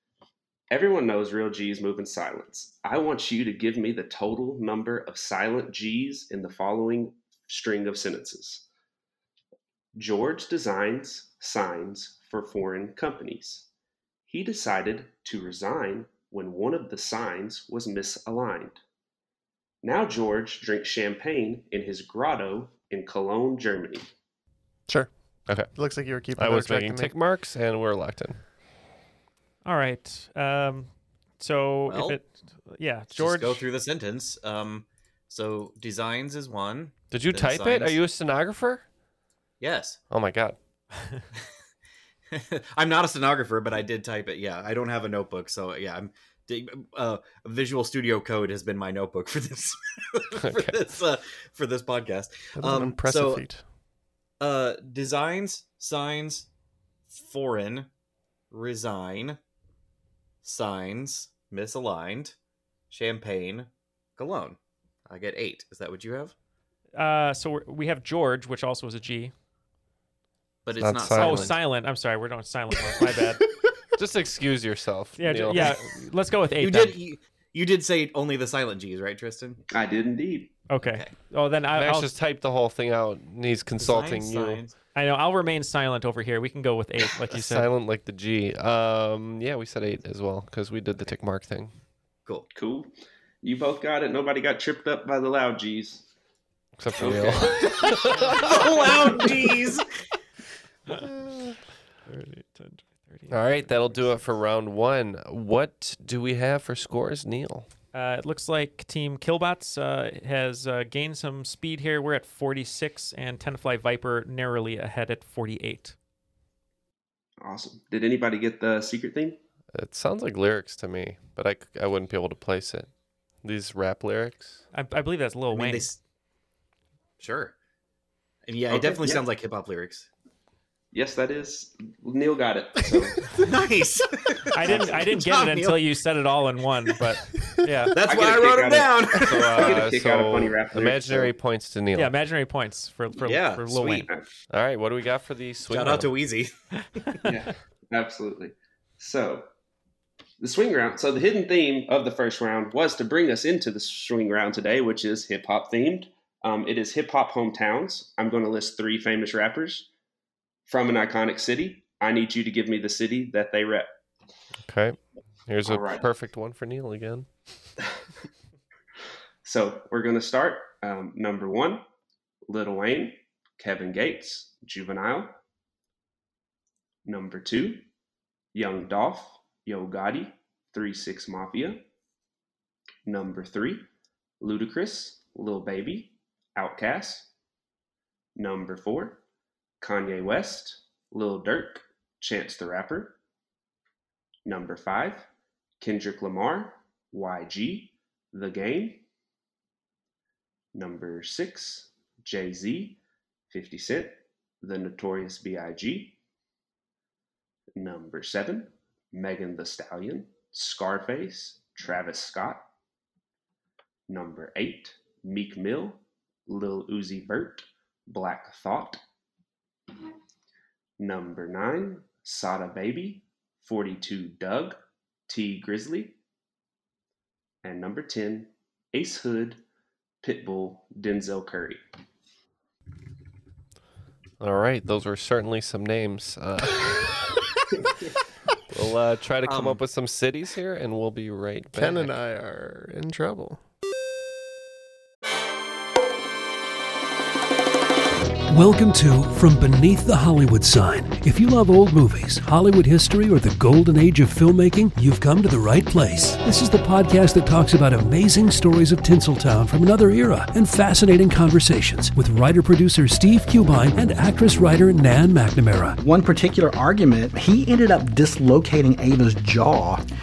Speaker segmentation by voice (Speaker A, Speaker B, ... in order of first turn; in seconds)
Speaker A: 0.7-8.6, 9.9-13.7, 14.3-18.8, 19.8-24.1, 79.7-80.6, 92.5-96.0, 97.0-98.0, 117.4-119.4, 128.7-129.2, 130.9-133.3, 138.0-141.3, 147.2-149.5, 150.4-159.9, 160.7-163.9, 165.6-166.1, 169.4-171.8, 172.5-175.3, 177.0-177.8, 178.5-181.8, 183.1-183.8, 184.4-187.3, 188.3-189.2, 189.8-193.2, 194.4-195.3, 195.8-199.0, 200.7-203.0, 203.5-206.2, 207.8-212.6, 214.1-219.0, 221.0-226.2, 227.6-229.6, 230.2-231.8
Speaker B: 25.7-27.1, 52.6-53.6, 241.7-243.6
Speaker C: 26.3-28.4, 37.1-38.8, 40.1-40.6, 50.4-50.8, 70.8-71.5, 74.0-75.9, 81.7-84.6, 87.3-91.7, 96.8-98.4, 103.3-107.7, 119.7-122.9, 123.4-124.6, 139.2-142.1, 144.5-146.1, 164.6-167.3, 234.4-237.2, 238.7-242.2
Speaker D: 29.6-33.6, 66.9-69.3, 71.1-73.4, 75.2-77.0, 80.7-82.1, 84.9-87.7, 102.0-104.1, 107.9-116.0, 124.7-125.9, 134.5-138.0, 141.9-144.1
Speaker E: 31.9-32.2, 33.1-38.0, 39.6-40.0, 42.3-53.4, 54.4-56.5, 57.1-57.9, 58.5-59.4, 60.4-62.3, 62.9-64.6, 65.1-66.3, 70.6-71.6, 76.6-79.6, 80.8-81.1, 83.8-84.7, 98.3-99.8, 125.5-126.0, 127.2-127.5, 128.5-130.1, 133.3-135.8, 137.9-139.8, 143.2-144.2, 145.7-146.5, 239.4-239.8
Speaker F: 248.5-266.0
Speaker G: 266.0-270.0